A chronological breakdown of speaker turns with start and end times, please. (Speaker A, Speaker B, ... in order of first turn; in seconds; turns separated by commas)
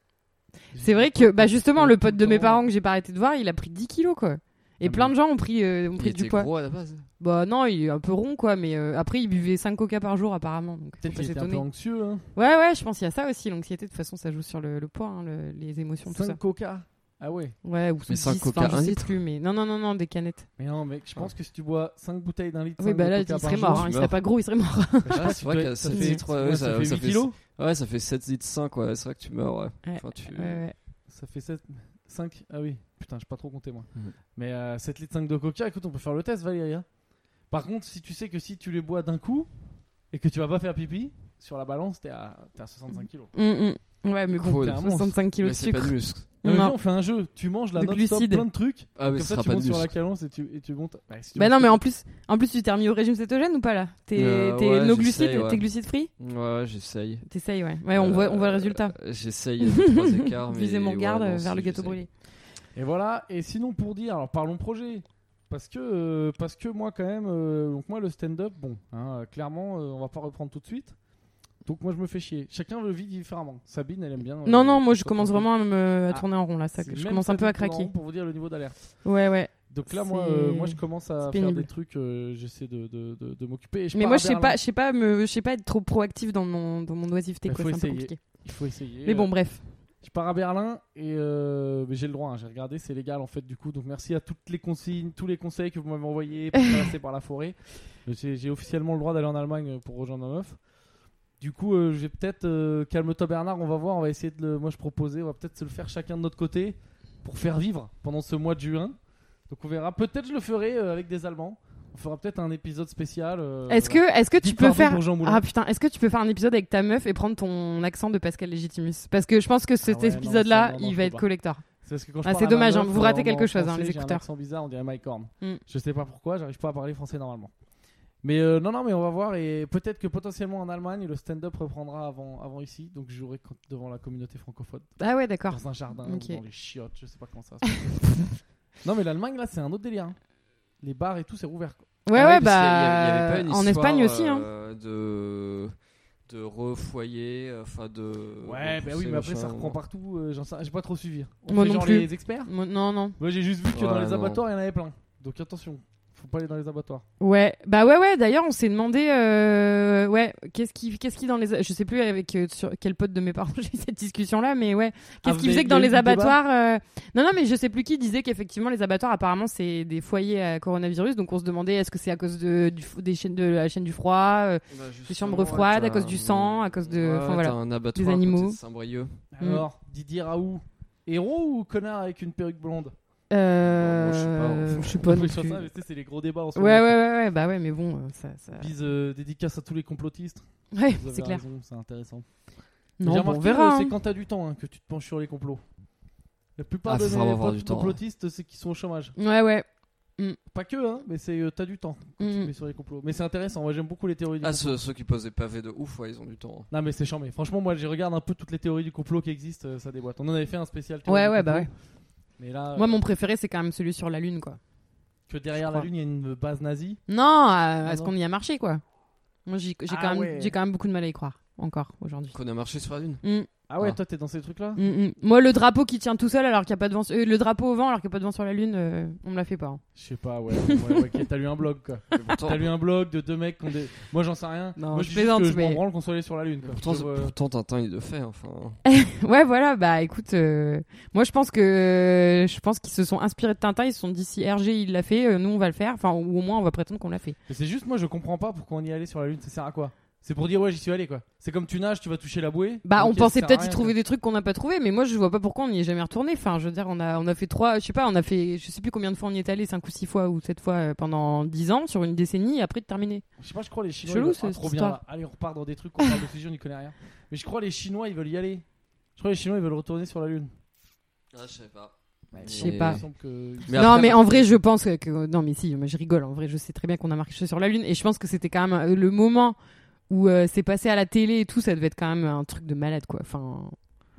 Speaker A: 0.7-2.6, Speaker B: 0.8-6.5, Speaker A: 4.8-5.1, Speaker C: 6.0-7.1, Speaker B: 7.2-11.7, Speaker A: 11.0-12.3, Speaker B: 12.3-16.4, Speaker A: 16.1-17.6, Speaker B: 17.6-20.5, Speaker C: 18.1-19.2, Speaker A: 20.6-23.9, Speaker B: 22.8-26.2, Speaker C: 23.8-24.2, Speaker A: 25.0-27.4, Speaker C: 25.1-30.6, Speaker B: 29.8-30.8, Speaker A: 31.1-36.9, Speaker A: 37.5-39.5, Speaker A: 40.1-43.4, Speaker B: 43.3-46.8, Speaker A: 44.4-45.2, Speaker C: 44.4-44.8, Speaker C: 45.4-46.3, Speaker A: 46.4-51.8, Speaker B: 47.8-48.4, Speaker C: 49.0-49.9, Speaker B: 51.4-56.1, Speaker C: 54.1-55.7, Speaker C: 56.2-57.2, Speaker B: 57.3-59.0, Speaker C: 57.9-62.0, Speaker B: 59.6-62.1, Speaker A: 62.8-71.0, Speaker A: 71.7-75.5, Speaker B: 74.5-77.9, Speaker A: 76.1-79.0, Speaker B: 79.0-81.7, Speaker A: 79.7-84.6, Speaker B: 83.9-88.4, Speaker A: 87.5-89.4, Speaker B: 89.0-89.6, Speaker A: 90.0-100.6, Speaker A: 101.4-109.0, Speaker A: 109.5-115.4, Speaker B: 113.7-121.6, Speaker A: 119.8-121.3, Speaker A: 121.8-127.5, Speaker B: 122.2-124.2, Speaker A: 128.2-138.2, Speaker B: 135.0-136.4, Speaker A: 138.8-140.2, Speaker A: 140.8-141.8, Speaker B: 142.1-144.5, Speaker C: 142.1-145.7, Speaker C: 146.3-149.8, Speaker A: 148.4-152.5, Speaker B: 151.5-153.2, Speaker A: 153.2-157.1, Speaker C: 153.7-154.4, Speaker B: 157.2-178.6, Speaker A: 165.2-166.4, Speaker C: 174.7-179.2, Speaker A: 179.3-182.9, Speaker B: 179.4-179.7, Speaker B: 183.3-185.7, Speaker C: 183.6-185.0, Speaker A: 184.9-187.0, Speaker B: 186.6-188.7, Speaker A: 188.6-192.3, Speaker B: 190.7-191.4, Speaker B: 193.0-193.9, Speaker A: 193.0-195.6, Speaker A: 196.6-199.2, Speaker C: 196.9-198.0, Speaker B: 199.2-199.7, Speaker A: 200.5-204.8, Speaker B: 202.2-202.5, Speaker C: 204.4-206.7, Speaker A: 206.7-211.7, Speaker B: 211.1-211.7, Speaker A: 212.4-213.0, Speaker B: 212.8-214.6, Speaker A: 215.3-217.0, Speaker B: 215.6-215.9, Speaker B: 217.1-218.8, Speaker A: 217.8-218.1, Speaker B: 219.5-222.4, Speaker A: 219.9-220.6, Speaker C: 222.3-223.2, Speaker B: 223.2-223.5, Speaker A: 223.7-224.8, Speaker B: 224.8-229.8, Speaker A: 230.0-237.3, Speaker C: 232.1-232.7, Speaker B: 234.8-235.8, Speaker C: 236.6-238.8, Speaker B: 238.8-247.4, Speaker A: 247.5-254.0, Speaker B: 252.8-263.2, Speaker A: 263.4-268.6, Speaker B: 264.1-265.0, Speaker A: 269.2-270.5, Speaker C: 271.3-273.0, Speaker A: 272.3-274.5, Speaker B: 272.5-273.0, Speaker C: 273.7-274.4, Speaker B: 273.7-279.6, Speaker B: 280.1-283.8